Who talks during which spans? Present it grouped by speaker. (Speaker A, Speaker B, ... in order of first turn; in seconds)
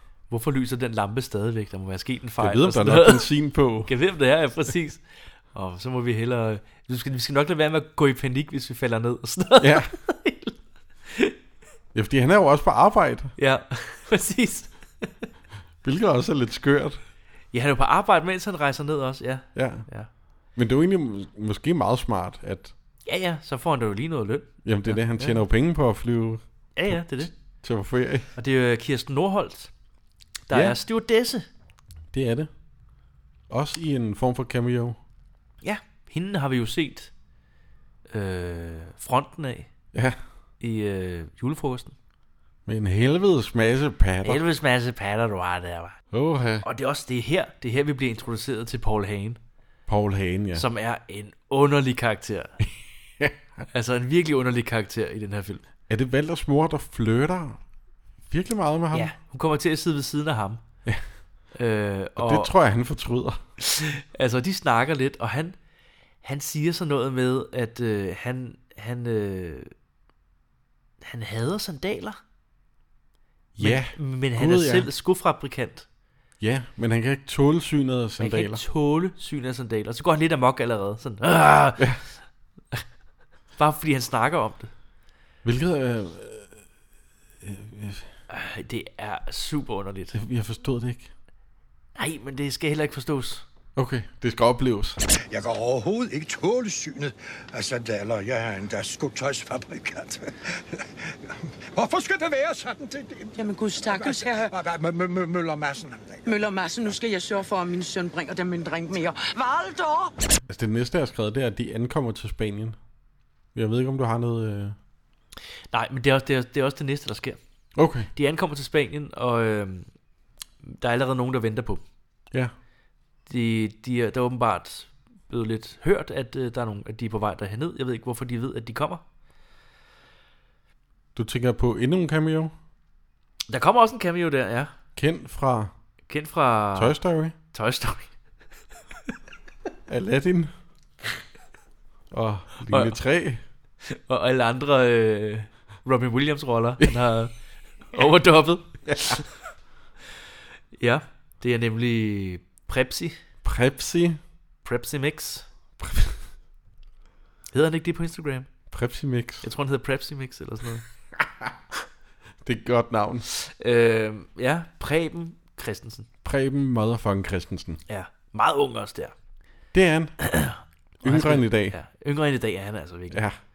Speaker A: 0.3-3.3, 3.9-10.6, 11.1-11.3, 13.4-15.1, 17.5-20.1, 23.1-25.4, 26.8-27.3, 28.4-29.7, 30.5-31.5, 35.6-37.1, 38.1-39.7, 40.6-42.0, 44.2-46.0, 46.6-49.4, 50.5-52.6, 53.7-55.6, 58.9-60.6, 61.5-62.5, 63.6-65.6, 66.2-69.7, 71.0-72.2, 73.6-75.9, 78.2-81.9, 83.6-84.7, 88.3-90.2, 92.0-93.5, 115.7-117.4, 118.1-119.9, 120.6-121.8, 123.3-129.0, 133.5-134.7, 136.1-136.9, 137.5-138.1, 142.7-143.0, 143.9-147.3, 147.9-149.3, 150.8-153.2, 154.6-155.5, 157.5-158.5, 159.4-160.8, 163.3-166.1, 167.9-169.1, 170.2-173.2
Speaker B: 2.4-3.9, 9.6-9.9, 11.9-13.3, 15.8-17.0, 19.6-19.9, 20.6-22.7, 24.6-28.3, 30.5-30.8, 32.1-32.5, 33.5-35.0, 42.7-44.4, 46.1-46.6, 49.9-50.7, 55.9-57.6, 58.3-59.1, 62.2-63.4, 73.6-74.9, 76.4-78.6, 85.4-86.6, 87.4-88.1, 90.1-91.1, 93.8-95.0, 110.5-112.8, 113.5-114.8, 117.8-118.1, 131.2-132.5, 135.0-135.7, 136.8-137.3, 139.9-140.5, 142.1-143.4, 148.9-149.2, 153.4-154.2, 155.8-156.2, 158.7-159.5, 162.4-163.3, 166.2-167.8, 169.7-170.2, 171.0-171.8, 173.1-173.4
Speaker C: 95.3-106.4
Speaker D: 103.4-104.5, 106.3-110.1